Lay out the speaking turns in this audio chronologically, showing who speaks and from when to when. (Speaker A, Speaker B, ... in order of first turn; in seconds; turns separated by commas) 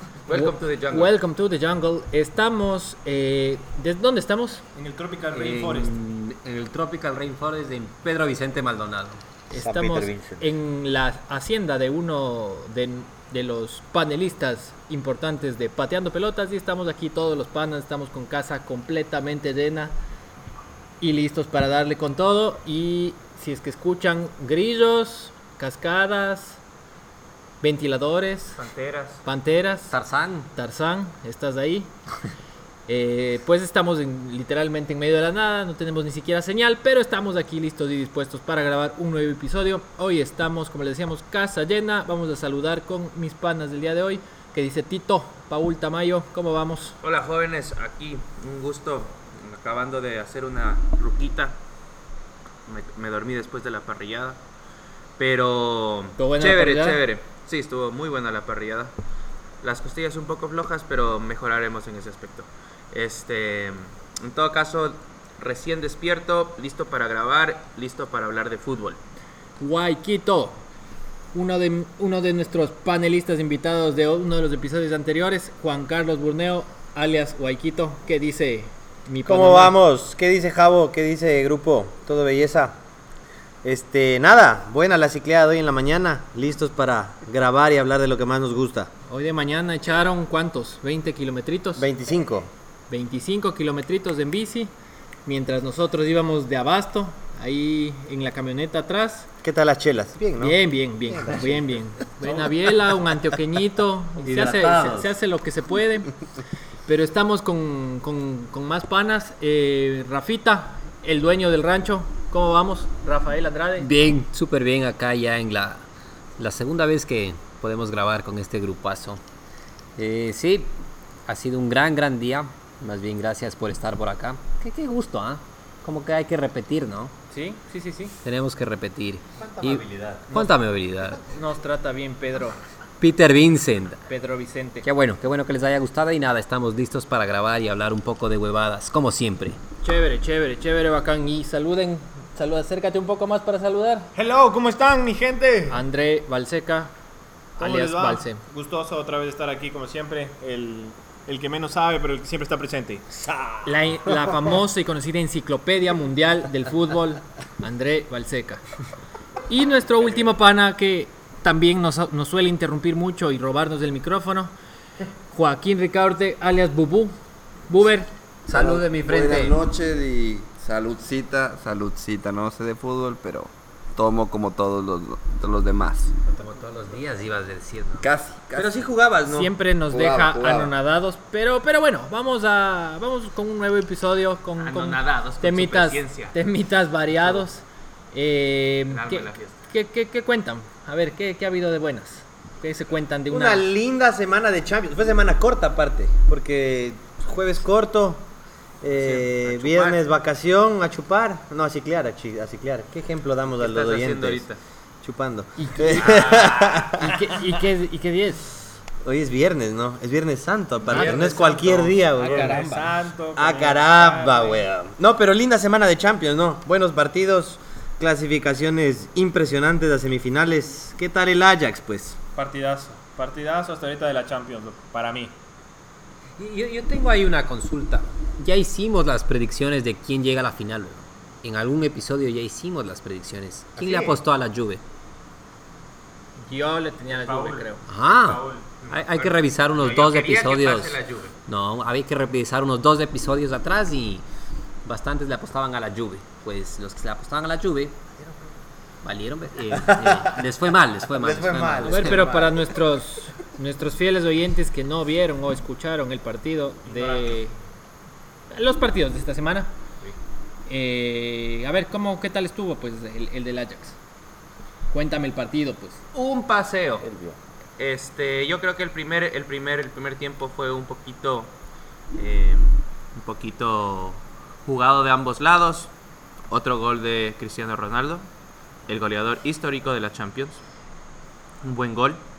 Speaker A: 0.3-1.1, Speaker B: 0.3-4.6, Speaker C: 4.8-5.9, Speaker D: 5.3-9.2, Speaker B: 9.5-19.9, Speaker E: 9.5-10.5, Speaker B: 21.0-26.6, Speaker B: 27.6-28.6, Speaker A: 28.6-29.2, Speaker B: 29.2-30.0, Speaker D: 29.9-30.5, Speaker B: 30.5-31.9, Speaker B: 32.9-47.0, Speaker A: 47.0-51.6, Speaker A: 52.7-54.4, Speaker A: 55.2-58.9, Speaker B: 56.2-57.0, Speaker A: 59.6-69.0, Speaker B: 69.6-70.7, Speaker B: 71.3-79.8, Speaker E: 79.3-82.8, Speaker E: 83.6-88.9, Speaker B: 89.1-91.9, Speaker E: 91.8-92.5, Speaker B: 92.9-94.7, Speaker B: 95.3-99.3, Speaker E: 99.4-101.8, Speaker B: 100.4-106.1, Speaker C: 102.3-102.5, Speaker E: 104.2-105.1, Speaker B: 106.9-113.9, Speaker D: 113.8-115.8, Speaker D: 116.4-119.2, Speaker D: 120.0-127.1, Speaker B: 127.3-128.2, Speaker D: 128.2-131.2, Speaker E: 129.4-130.4, Speaker B: 131.1-132.6, Speaker D: 133.0-134.0, Speaker B: 134.1-134.9, Speaker D: 134.8-139.6, Speaker B: 139.8-144.1, Speaker C: 144.1-145.8, Speaker B: 145.7-146.9, Speaker C: 147.6-153.6, Speaker B: 147.6-148.4, Speaker B: 153.6-158.6, Speaker B: 159.5-164.5, Speaker B: 165.3-167.1, Speaker B: 167.7-168.1, Speaker D: 168.5-169.6, Speaker F: 168.5-176.1, Speaker D: 176.3-178.1, Speaker F: 178.0-178.8, Speaker E: 178.5-179.5, Speaker B: 179.3-193.7, Speaker F: 179.9-180.7, Speaker A: 184.6-186.3, Speaker A: 188.9-189.6, Speaker E: 193.3-198.3, Speaker E: 198.8-204.4, Speaker A: 198.9-200.0, Speaker A: 203.6-204.6, Speaker E: 205.0-207.2, Speaker B: 205.6-206.3, Speaker A: 205.9-206.9, Speaker B: 207.0-208.8, Speaker E: 209.0-212.6, Speaker B: 210.9-212.9, Speaker C: 210.9-214.6, Speaker E: 213.3-222.2, Speaker C: 222.3-225.3, Speaker D: 226.4-234.8, Speaker E: 233.8-234.2, Speaker B: 236.4-237.8, Speaker C: 237.1-238.8, Speaker D: 237.9-244.2, Speaker A: 238.8-241.3, Speaker D: 244.8-248.1, Speaker D: 249.0-252.3, Speaker E: 249.7-250.4, Speaker E: 251.0-252.7, Speaker B: 251.8-257.5, Speaker C: 256.9-257.4, Speaker B: 258.5-259.7, Speaker B: 260.7-264.0, Speaker B: 264.9-266.0, Speaker A: 266.1-267.1, Speaker E: 267.0-267.4, Speaker A: 267.8-271.5, Speaker A: 272.1-275.9, Speaker A: 276.5-278.2, Speaker A: 278.9-280.6, Speaker A: 281.6-282.2